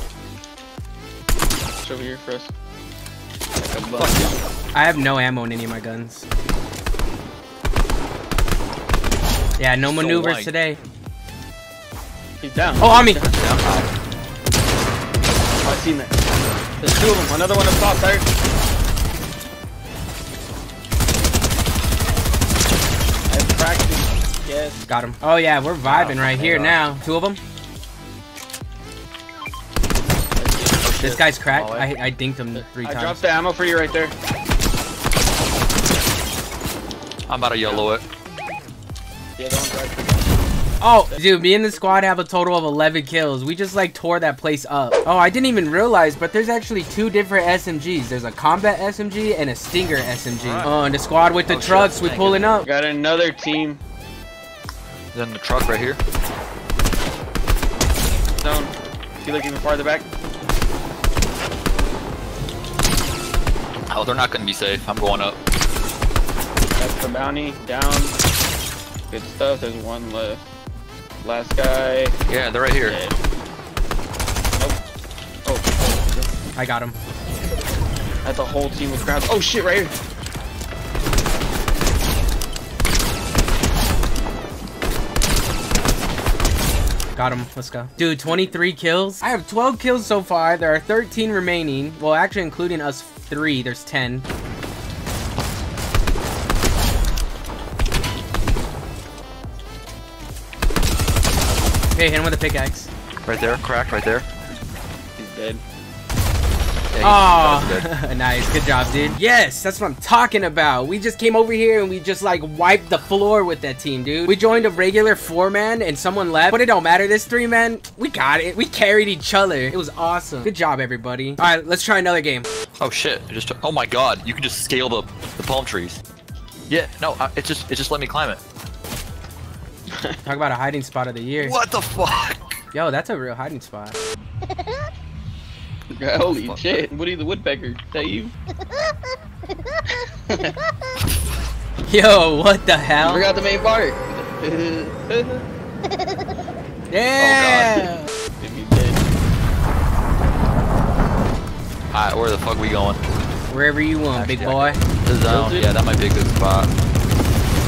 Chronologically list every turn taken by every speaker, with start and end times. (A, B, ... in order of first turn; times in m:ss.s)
0:01.8-0:02.5 A
0:03.6-0:04.4 A
0:04.0-0:04.4 B
0:04.7-0:06.2 C
0:09.6-0:10.8 C
0:09.9-0:10.5 B
0:12.4-0:13.3 A
0:12.8-0:13.2 C
0:13.3-0:13.9 B
0:15.6-0:16.2 A
0:16.8-0:18.3 A
0:23.3-0:24.9 A
0:24.9-0:27.4 C
0:25.8-0:26.8 B
0:30.4-0:31.2 A
0:31.0-0:33.2 C
0:31.5-0:31.9 B
0:32.5-0:34.1 A
0:37.3-0:38.0 B
0:37.6-0:37.9 A
0:39.4-0:40.4 A
0:40.8-0:52.6 C
0:41.1-0:42.0 A
0:50.4-0:50.7 A
0:51.5-0:52.5 B
0:52.6-0:53.8 A
0:55.1-0:56.0 B
0:58.4-1:00.1 A
1:03.9-1:05.4 B
1:06.8-1:08.2 A
1:09.1-1:10.4 A
1:11.2-1:12.2 A
1:12.3-1:13.0 B
1:12.8-1:13.2 A
1:15.4-1:16.3 A
1:16.6-1:17.0 C
1:18.2-1:19.9 A
1:27.2-1:34.2 C
1:42.0-1:42.9 C
1:43.2-1:44.2 B
1:45.2-1:45.6 A
1:46.9-1:47.9 B
1:47.0-2:02.5 C
1:54.5-1:55.1 A
2:02.8-2:06.0 B
2:06.7-2:08.4 B
2:10.2-2:11.6 C
2:11.4-2:12.4 B
2:12.7-2:14.0 C
2:15.9-2:18.3 A
2:16.3-2:16.8 B
2:21.9-2:23.3 C
2:23.0-2:25.4 A
2:26.9-2:28.1 C
2:27.2-2:27.9 B
2:28.4-2:29.0 A
2:31.9-2:33.0 B
2:33.5-2:34.8 C
2:34.1-2:36.7 B
2:35.3-2:35.7 A